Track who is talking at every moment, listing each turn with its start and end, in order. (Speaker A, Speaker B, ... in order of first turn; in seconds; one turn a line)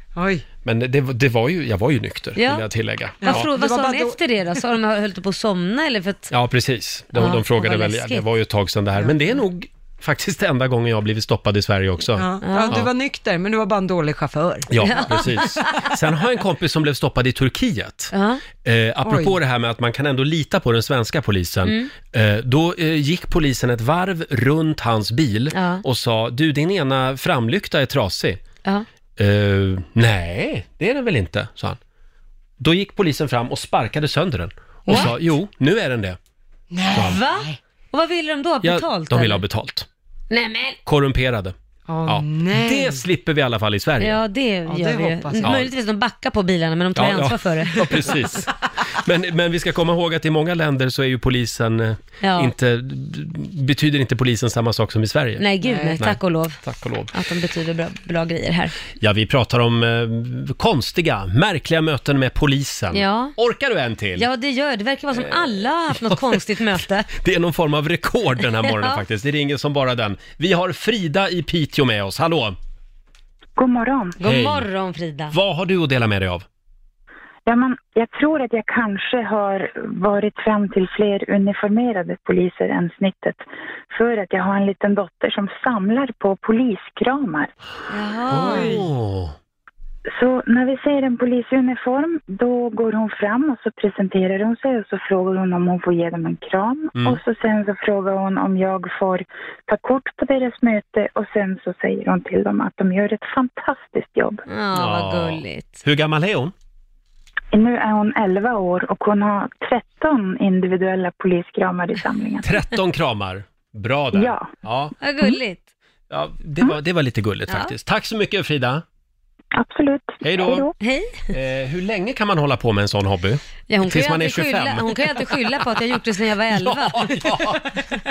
Speaker A: 0.1-0.4
Speaker B: 0.6-3.5
Speaker C: 2.4-2.7
Speaker C: 3.2-6.3
Speaker A: 3.2-4.2
Speaker B: 6.3-12.9
Speaker C: 7.1-8.2
Speaker A: 12.2-15.1
Speaker C: 12.4-12.8
Speaker B: 14.7-28.4
Speaker C: 14.8-15.9
Speaker C: 18.1-18.4
Speaker A: 19.0-19.4
Speaker C: 21.6-21.9
Speaker C: 25.5-25.8
Speaker B: 29.2-31.8
Speaker B: 32.6-36.2
Speaker C: 34.9-35.1
Speaker A: 36.7-37.6
Speaker B: 36.9-37.2
Speaker C: 36.9-39.4
Speaker B: 38.6-39.9
Speaker C: 40.3-40.8
Speaker B: 40.9-41.5
Speaker A: 41.9-43.0
Speaker B: 42.0-44.2
Speaker C: 44.0-48.2
Speaker A: 44.6-45.5
Speaker B: 45.4-45.7
Speaker B: 46.9-55.5
Speaker C: 52.2-52.5
Speaker C: 55.4-56.6
Speaker A: 55.6-56.0
Speaker B: 56.0-57.1
Speaker C: 57.1-58.7
Speaker B: 59.0-64.3
Speaker C: 62.9-63.3
Speaker C: 64.2-67.1
Speaker B: 65.1-66.4
Speaker B: 67.1-72.5
Speaker C: 68.6-69.0
Speaker D: 73.6-74.2
Speaker C: 74.2-75.3
Speaker B: 74.2-74.7
Speaker B: 75.3-76.4
Speaker D: 77.5-87.5
Speaker C: 87.9-88.8
Speaker B: 88.3-89.3
Speaker A: 88.4-88.8
Speaker D: 90.1-104.4
Speaker B: 96.9-97.2
Speaker C: 104.5-105.8
Speaker B: 104.7-106.5
Speaker D: 107.5-112.5
Speaker B: 112.4-114.9
Speaker D: 114.1-114.5
Speaker C: 115.0-115.6
Speaker B: 116.1-118.8
Speaker C: 117.5-117.7
Speaker D: 119.6-120.7
Speaker B: 120.2-120.7
Speaker C: 120.8-121.2
Speaker B: 121.3-125.0
Speaker C: 123.7-127.3
Speaker B: 126.5-127.7